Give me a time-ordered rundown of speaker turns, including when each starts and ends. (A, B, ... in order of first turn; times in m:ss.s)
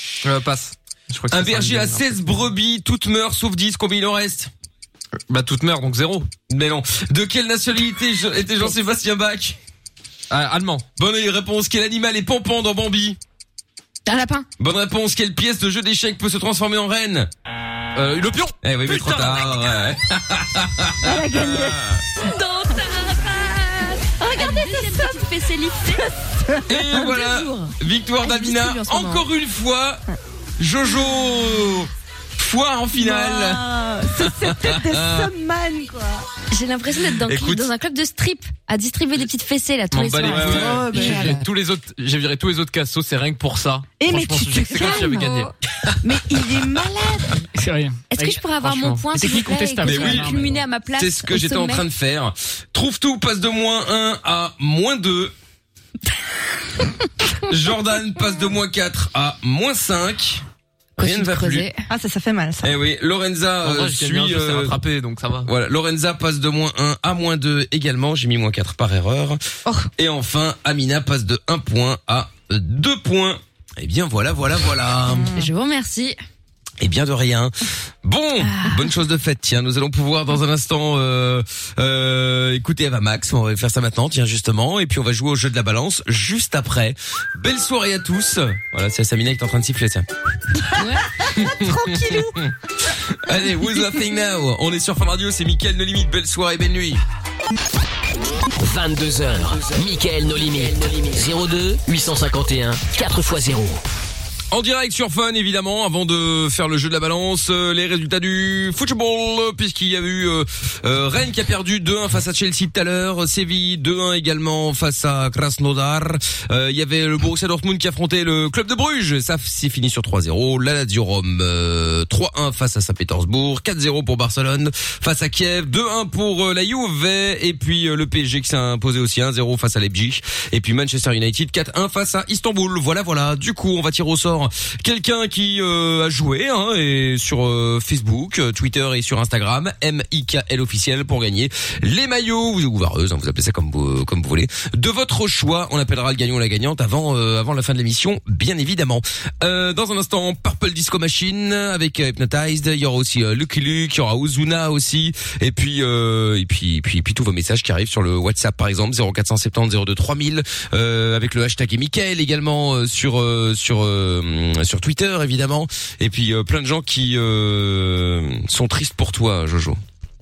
0:00.2-0:02.2 A
0:01.3-0:04.5 B
0:05.3-0:06.3 A
0:06.5-0:09.6 B
0:10.3-0:10.8 A
0:11.0-0:13.2 B
0:14.1-0:14.5 C
0:14.6-0:17.3 B
0:18.0-0:19.5 A
0:18.6-0:22.0 B
0:21.0-0:21.8 D
0:22.2-0:26.0 C
0:24.2-0:25.3 D
0:26.0-0:26.6 D
0:26.7-0:30.0 B
0:26.9-0:29.3 C
0:30.6-0:33.7 B
0:33.0-0:36.3 D
0:34.2-0:35.3 B
0:36.5-0:41.4 C
0:37.3-0:37.6 A
0:39.9-0:45.5 A
0:40.3-0:40.8 B
0:40.5-0:41.4 D
0:44.0-0:45.5 D
0:44.8-0:45.5 C
0:46.0-0:47.4 D
0:47.6-0:50.6 E
0:48.1-0:51.8 C
0:49.8-0:50.4 B
0:51.0-0:55.3 B
0:57.4-1:00.4 B
1:01.0-1:01.7 B
1:01.0-1:01.8 C
1:01.9-1:02.8 D
1:02.6-1:04.8 B
1:03.6-1:05.5 A
1:05.4-1:09.4 B
1:09.6-1:09.9 D
1:10.0-1:15.3 B
1:15.1-1:15.5 D
1:15.3-1:16.2 C
1:16.8-1:17.5 B
1:18.0-1:30.1 B
1:30.8-1:31.1 C
1:31.3-1:32.4 D
1:31.4-1:32.5 B
1:33.2-1:37.0 B
1:38.5-1:43.8 F
1:44.5-2:49.8 B